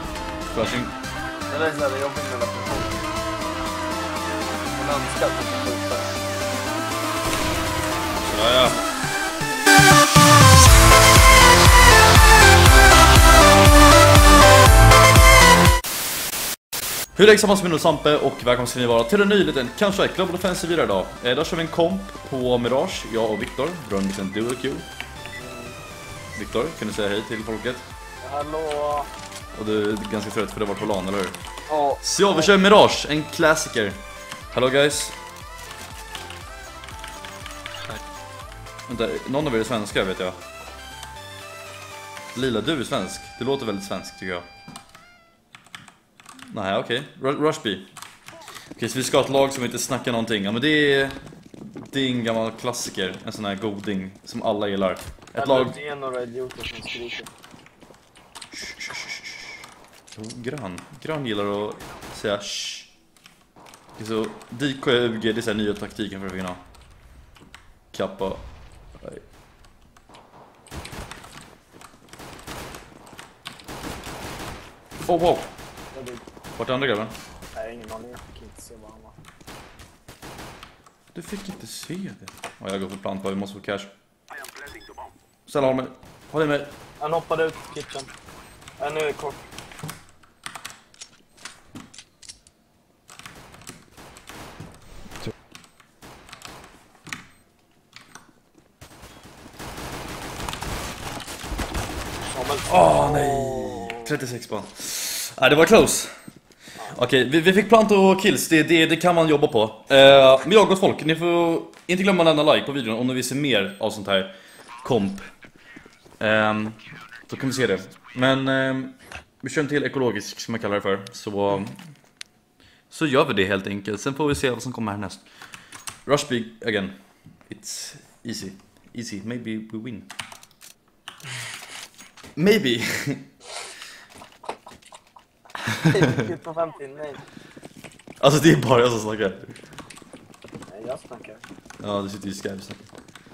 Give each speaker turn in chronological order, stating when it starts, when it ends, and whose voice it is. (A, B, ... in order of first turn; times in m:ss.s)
0:00.5-0:01.0 A
0:01.5-0:03.0 B
0:04.7-0:06.2 B
0:08.1-0:08.8 A
0:17.2-0:24.9 A
0:25.4-0:25.8 B
0:26.4-0:27.9 A
0:28.2-0:29.1 B
0:29.6-0:31.4 A
0:31.7-0:32.5 B
0:32.0-0:34.0 A
0:34.5-0:35.2 A
0:38.9-0:40.4 A
0:42.3-0:44.5 A
0:46.5-0:47.9 A
0:48.8-0:55.8 A
0:55.4-0:57.3 B
0:58.5-0:59.6 A
1:00.1-1:02.9 A
1:04.0-1:06.6 A
1:07.9-1:08.5 A
1:09.0-1:09.2 A
1:15.1-1:15.5 A
1:15.9-1:16.2 B
1:16.6-1:17.1 A
1:17.5-1:19.2 B
1:21.1-1:23.9 A
1:25.5-1:26.7 A
1:27.0-1:28.1 B
1:28.8-1:29.4 B
1:42.3-1:44.1 B
1:42.7-1:46.1 A
1:46.9-1:55.3 A
1:56.2-2:01.8 A
2:02.9-2:05.2 A
2:06.1-2:10.1 A
2:12.4-2:13.3 A
2:15.7-2:16.2 A
2:15.9-2:17.2 B
2:18.2-2:19.6 A
2:20.7-2:21.4 B
2:21.8-2:22.9 A